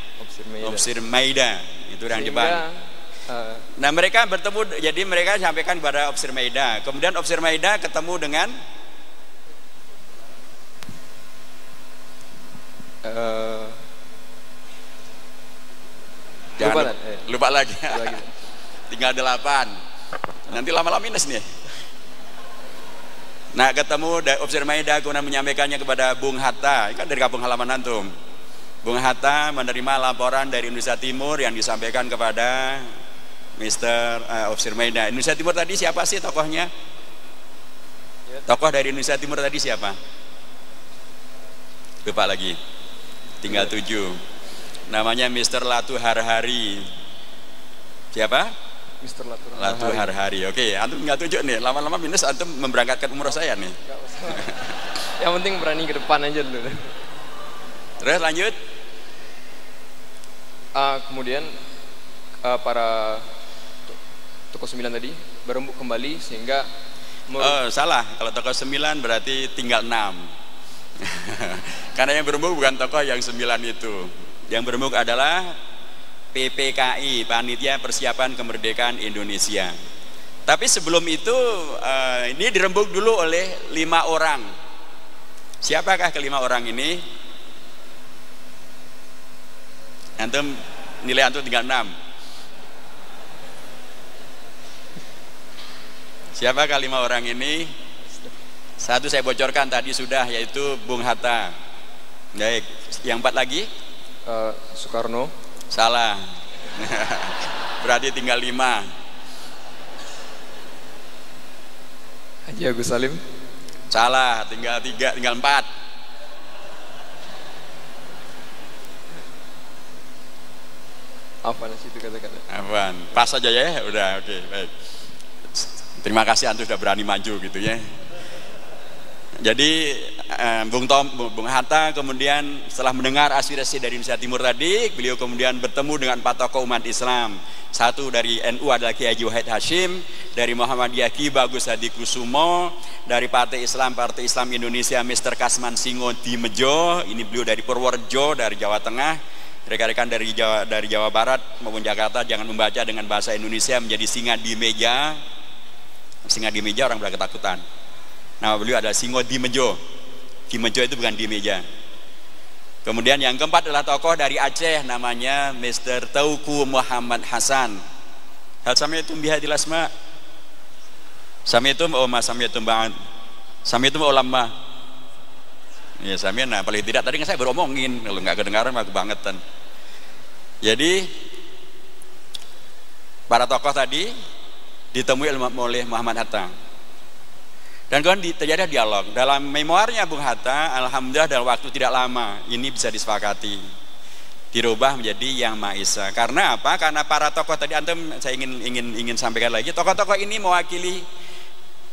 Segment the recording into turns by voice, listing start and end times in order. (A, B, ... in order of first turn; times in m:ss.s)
0:00.2-0:00.8 A
0:00.6-0:02.6 B
0:02.1-0:03.7 A
0:03.8-0:08.5 B
0:13.0-0:13.8 A
0:16.6-0:18.2 B
0:16.6-0:17.3 A
0:17.9-0:18.3 A
0:18.9-0:19.8 B
0:20.5-0:21.5 B
0:23.6-0:28.1 B
0:28.8-0:32.9 B
0:33.6-0:36.7 B
0:38.5-0:40.0 B
0:42.0-0:42.6 B
0:43.4-0:44.2 B
0:44.9-0:46.9 B
0:48.1-0:48.5 B
0:49.0-0:50.1 A
0:49.6-0:53.8 B
0:53.8-0:56.9 A
0:54.4-0:54.7 B
0:58.0-0:58.6 B
1:00.8-1:01.6 A
1:02.4-1:03.3 A
1:04.5-1:06.7 A
1:07.3-1:07.6 A
1:07.4-1:10.3 B
1:11.0-1:15.6 B
1:16.3-1:19.8 B
1:20.5-1:24.5 B
1:25.6-1:27.0 B
1:30.2-1:31.9 B
1:36.4-1:37.7 B
1:38.8-1:41.5 B
1:42.4-1:43.7 B
1:44.3-1:45.3 A
1:45.7-1:48.9 B
1:52.5-1:53.2 A
1:53.9-1:55.7 B
2:01.4-2:02.4 A
2:02.5-2:04.7 B
2:05.6-2:07.8 B
2:09.4-2:35.2 B
2:36.2-2:37.6 B
2:38.4-2:39.8 B
2:40.5-2:41.6 B
2:42.8-2:47.8 B
2:48.6-2:49.9 B
2:51.5-2:53.0 B
2:53.6-2:54.5 B
2:56.0-2:59.4 B
3:00.6-3:01.1 B
3:03.3-3:04.1 B
3:04.9-3:06.5 B
3:07.9-3:13.6 B
3:14.5-3:21.0 B